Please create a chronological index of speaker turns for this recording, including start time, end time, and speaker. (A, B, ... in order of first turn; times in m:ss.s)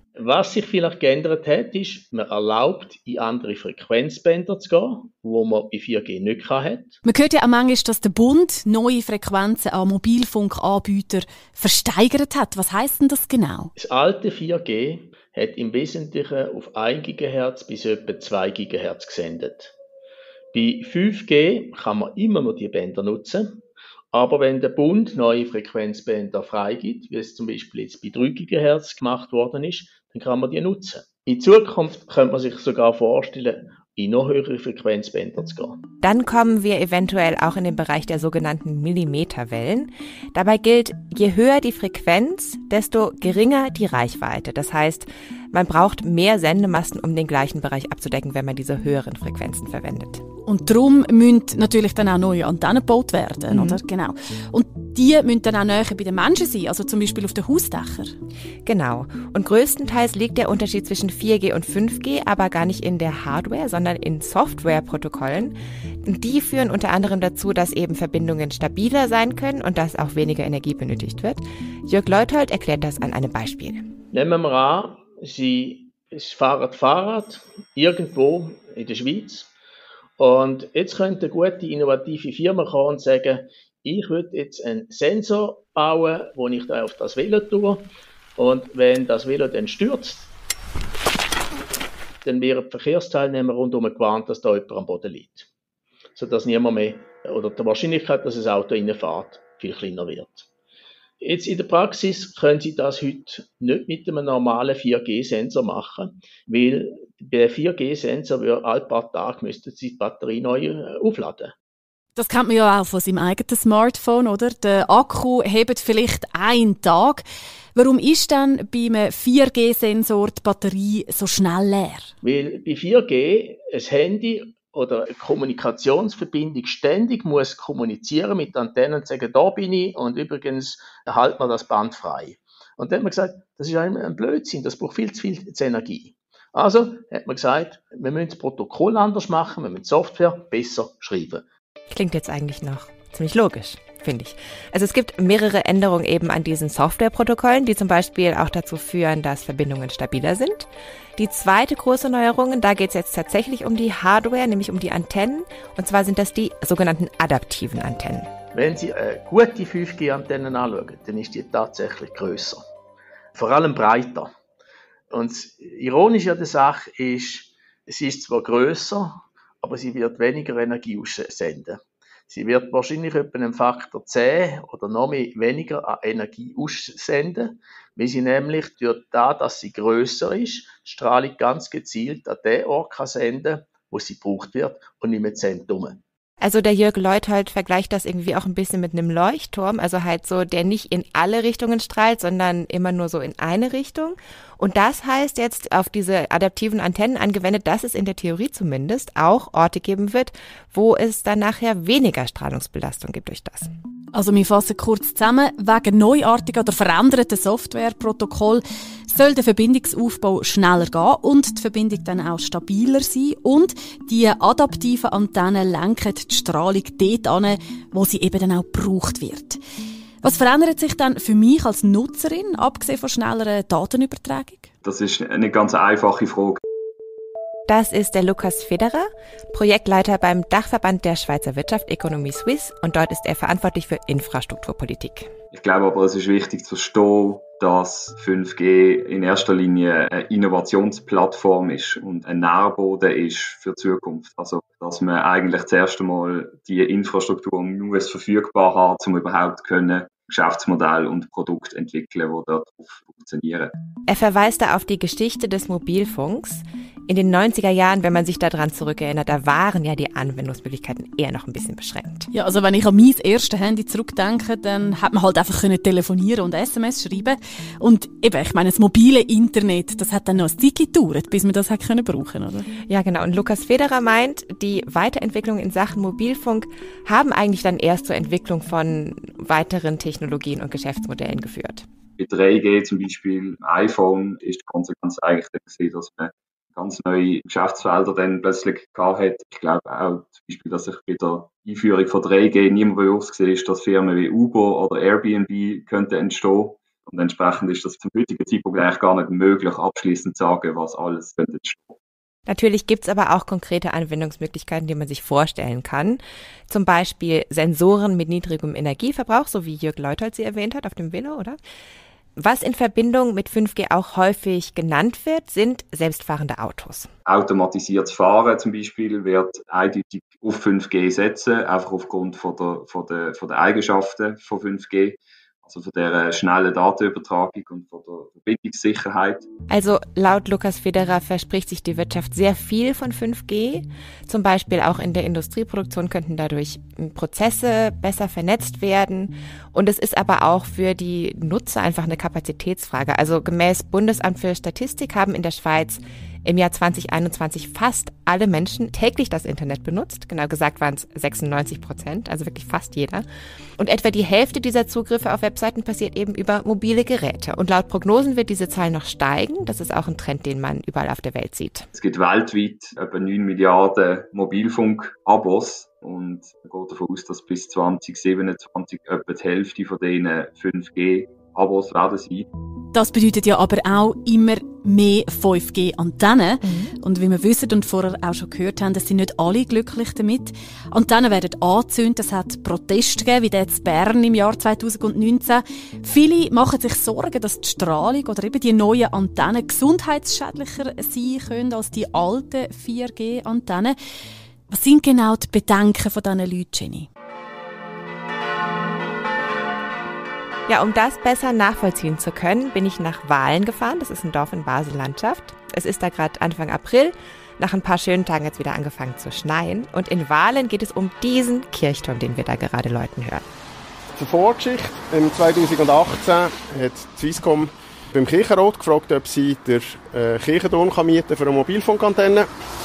0:00.2-0:07.0 A
0:07.0-0:13.7 B
0:13.8-0:19.7 A
0:20.5-0:35.8 A
0:36.0-0:50.3 C
0:50.5-0:58.2 B
0:53.5-0:53.8 C
0:58.6-1:13.9 C
1:14.1-1:19.5 A
1:20.2-1:30.3 A
1:32.2-1:35.5 A
1:36.2-1:40.5 A
1:41.2-1:51.5 A
1:52.2-1:57.2 B
1:57.8-2:02.1 B
2:02.2-2:21.4 A
2:21.9-2:38.3 C
2:38.5-2:42.6 A
2:43.3-2:44.3 A
2:45.1-3:06.0 A
3:06.4-3:23.7 C
3:24.1-3:39.6 B
3:40.2-3:44.7 B
3:44.8-3:46.6 D
3:47.7-3:55.3 C
3:55.5-4:13.7 D
4:14.1-4:22.3 C
4:22.3-4:32.7 B
4:32.9-4:41.9 C
4:42.2-5:02.0 D
5:02.5-5:11.6 C
5:12.4-5:17.1 C
5:17.2-5:29.5 D
5:29.7-5:53.2 C
5:53.8-6:01.9 C
6:01.9-6:12.5 D
6:12.9-6:34.0 B
6:16.6-6:16.9 C
6:34.7-6:37.1 B
6:40.7-6:53.4 C
6:54.2-7:02.5 E